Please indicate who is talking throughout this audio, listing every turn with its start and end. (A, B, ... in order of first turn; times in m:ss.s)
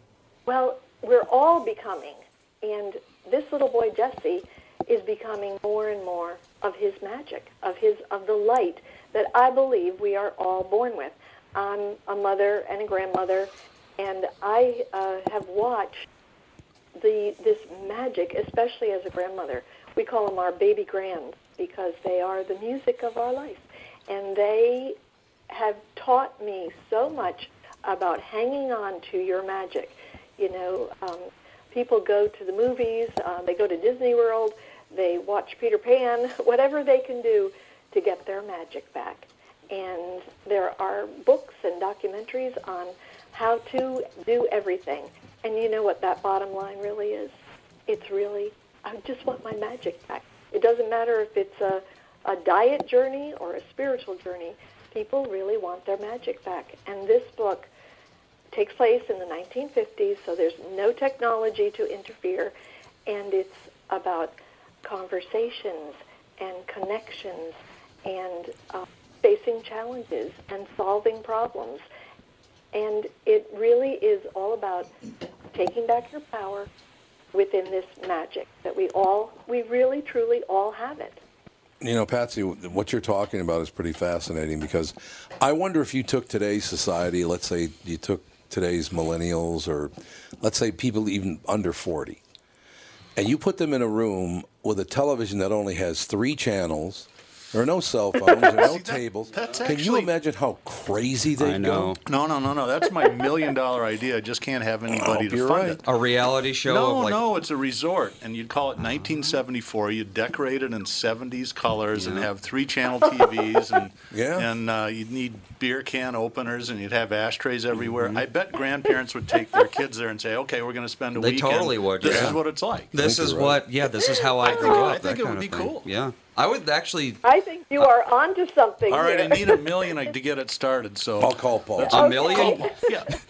0:00.4-0:16.0 A
0:17.0-0:25.0 A
0:25.5-0:47.3 A
0:47.9-0:57.7 A
0:58.5-1:02.5 A
1:03.1-1:11.8 A
1:12.7-1:14.9 A
1:15.5-1:16.7 A
1:17.3-1:21.2 A
1:21.8-1:32.2 B
1:33.2-1:42.0 B
1:38.4-1:40.1 C
1:41.4-1:42.0 D
1:42.0-1:45.8 C
1:44.9-1:45.8 B
1:45.8-1:47.2 D
1:46.6-2:02.9 C
1:51.9-1:52.3 D
1:54.1-1:54.5 B
2:01.2-2:07.2 D
2:02.0-2:02.4 B
2:03.0-2:03.6 B
2:04.4-2:05.9 C
2:04.5-2:04.9 A
2:07.2-2:10.1 A
2:08.9-2:13.1 C
2:11.2-2:12.0 B
2:11.9-2:12.7 D
2:11.9-2:13.0 A